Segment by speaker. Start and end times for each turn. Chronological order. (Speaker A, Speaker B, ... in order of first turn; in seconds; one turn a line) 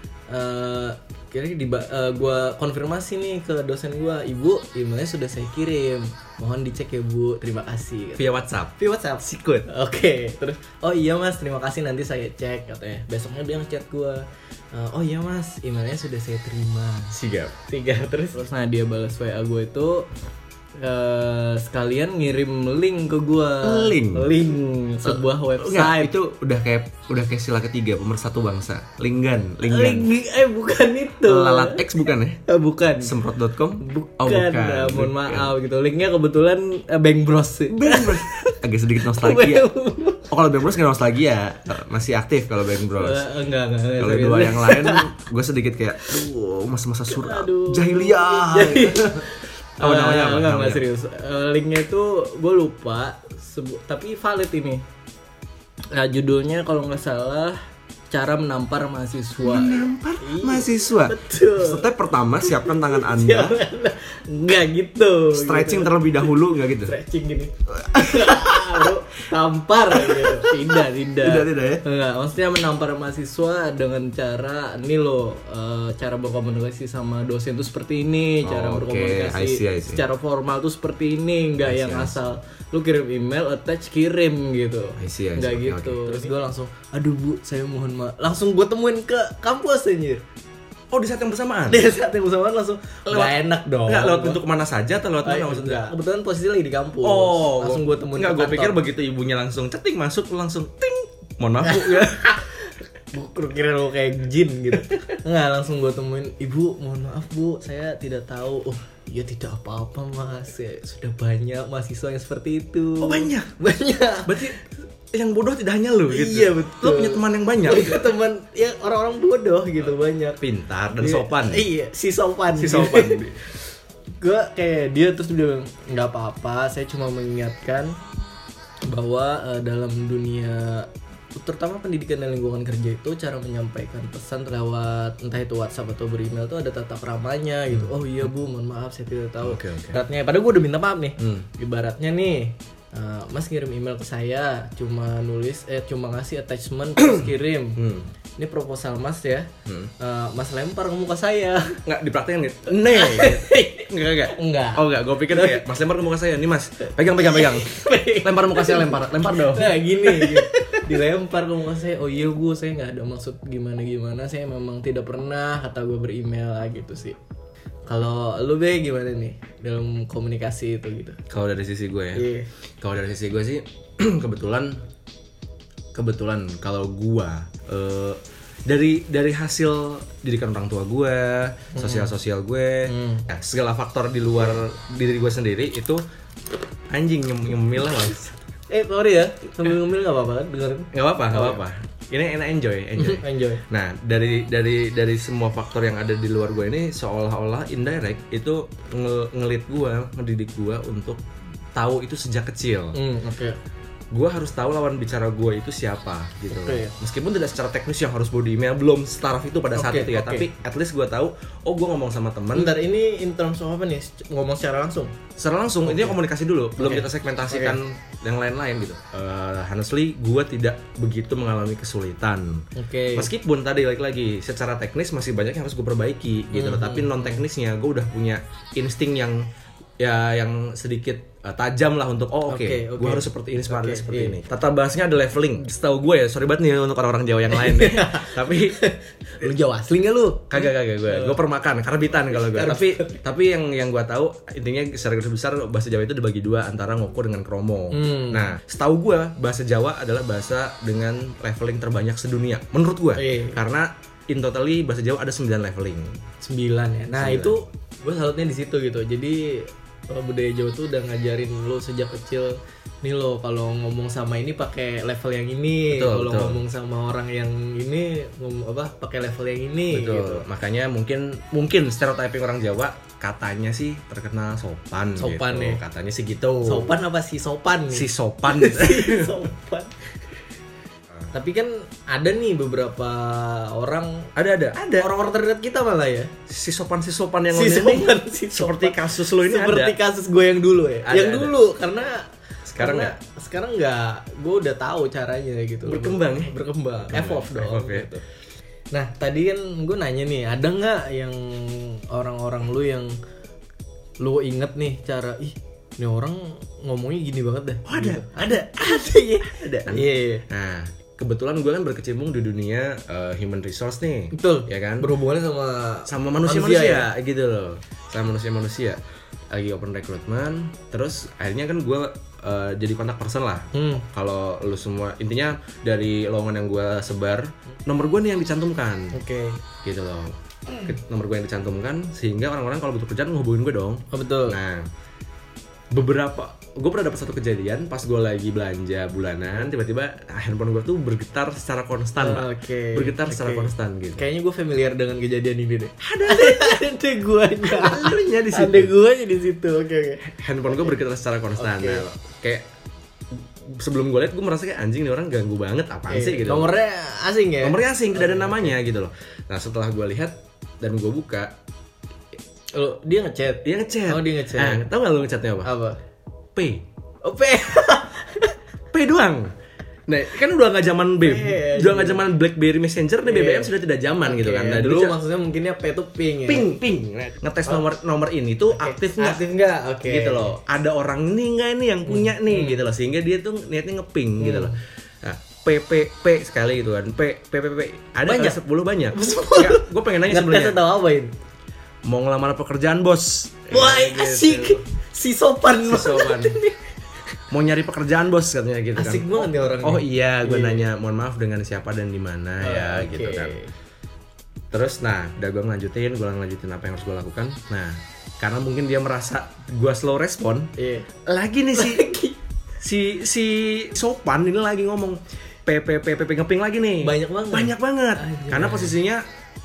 Speaker A: 0.3-17.2
Speaker B: 8.2-9.7
Speaker B: 17.1-17.6
Speaker A: 17.7-20.1
Speaker A: 20.8-26.1
Speaker B: 23.6-24.4
Speaker B: 25.0-30.1
Speaker A: 29.6-33.2
Speaker B: 31.2-32.4
Speaker B: 33.0-35.5
Speaker A: 33.8-40.2
Speaker B: 37.7-39.7
Speaker B: 40.3-43.3
Speaker A: 43.0-45.1
Speaker B: 44.0-50.8
Speaker A: 47.1-54.8
Speaker A: 55.9-57.6
Speaker A: 58.1-90.2
Speaker B: 59.4-63.6
Speaker B: 65.3-66.9
Speaker B: 67.8-69.0
Speaker B: 69.9-71.8
Speaker B: 78.4-80.0
Speaker B: 81.6-82.2
Speaker B: 85.0-86.3
Speaker B: 90.9-91.8
Speaker A: 91.7-94.4
Speaker B: 93.1-95.9
Speaker A: 95.2-98.8
Speaker B: 97.0-102.3
Speaker A: 101.6-114.6
Speaker B: 113.0-113.5
Speaker B: 114.3-114.6
Speaker B: 115.1-118.1
Speaker A: 116.1-120.4
Speaker B: 120.4-121.7
Speaker A: 121.0-123.5
Speaker B: 122.5-123.4
Speaker A: 124.2-128.0
Speaker A: 128.8-147.8
Speaker B: 139.4-140.0
Speaker B: 141.2-141.5
Speaker B: 147.8-148.1
Speaker A: 148.4-149.5
Speaker B: 149.7-149.9
Speaker A: 150.0-151.8
Speaker B: 151.8-160.8
Speaker A: 152.9-155.8
Speaker A: 157.2-167.2
Speaker A: 167.9-171.2
Speaker B: 171.3-172.3
Speaker A: 172.2-172.5
Speaker B: 172.8-174.8
Speaker B: 175.9-186.0
Speaker A: 181.8-182.1
Speaker A: 182.9-183.3
Speaker B: 186.9-188.4
Speaker A: 188.7-191.6
Speaker B: 190.9-201.2
Speaker A: 193.0-193.6
Speaker B: 201.8-203.0
Speaker A: 202.9-203.6
Speaker B: 204.1-212.7
Speaker A: 206.5-206.9
Speaker A: 209.7-210.5
Speaker A: 212.5-215.1
Speaker B: 215.4-229.4
Speaker A: 215.8-216.2
Speaker A: 216.8-217.8
Speaker A: 222.8-223.3
Speaker A: 226.5-227.4
Speaker B: 230.0-238.8
Speaker A: 232.5-234.4
Speaker A: 237.5-241.4
Speaker B: 240.5-256.2
Speaker A: 242.1-243.2
Speaker A: 247.9-248.5
Speaker A: 253.2-253.6
Speaker A: 256.4-270.5
Speaker B: 257.1-257.6
Speaker B: 265.9-266.6
Speaker B: 269.9-277.0
Speaker A: 275.2-275.8
Speaker A: 276.6-280.1
Speaker B: 277.9-279.4
Speaker A: 281.3-284.3
Speaker B: 284.4-285.1
Speaker A: 285.0-286.3
Speaker B: 286.5-290.0
Speaker A: 287.5-292.2
Speaker B: 291.1-291.5
Speaker B: 292.7-293.1
Speaker A: 292.8-298.2
Speaker B: 295.9-296.5
Speaker B: 297.1-298.1
Speaker A: 298.9-303.1
Speaker A: 304.2-310.4
Speaker B: 307.9-315.1
Speaker A: 314.3-317.1
Speaker B: 316.1-319.0
Speaker B: 319.5-329.1
Speaker A: 323.7-324.1
Speaker A: 329.1-329.6
Speaker B: 329.8-334.9
Speaker A: 334.1-334.6
Speaker B: 335.9-344.2
Speaker A: 342.2-350.2
Speaker B: 346.0-346.8
Speaker B: 347.6-348.9
Speaker B: 350.2-352.6
Speaker A: 351.6-352.0
Speaker B: 353.3-356.7
Speaker A: 356.1-358.8
Speaker B: 357.6-361.5
Speaker A: 362.7-364.9
Speaker B: 363.6-365.7
Speaker A: 365.6-366.0
Speaker B: 366.6-366.8
Speaker A: 367.2-368.6
Speaker B: 368.9-369.5
Speaker B: 370.1-375.1
Speaker A: 371.2-372.2
Speaker A: 373.2-373.7
Speaker A: 374.2-376.7
Speaker B: 376.5-379.4
Speaker A: 378.7-380.5
Speaker B: 380.1-390.8
Speaker A: 382.1-382.9
Speaker A: 384.4-384.8
Speaker A: 388.2-388.6
Speaker A: 389.1-391.3
Speaker B: 392.1-394.8
Speaker A: 393.7-396.9
Speaker B: 395.8-396.6
Speaker B: 397.5-403.6
Speaker A: 399.0-400.9
Speaker A: 402.6-403.7
Speaker B: 404.7-410.7
Speaker A: 410.8-411.1
Speaker B: 411.3-412.1
Speaker A: 411.7-412.4
Speaker B: 412.8-419.2
Speaker A: 417.0-418.9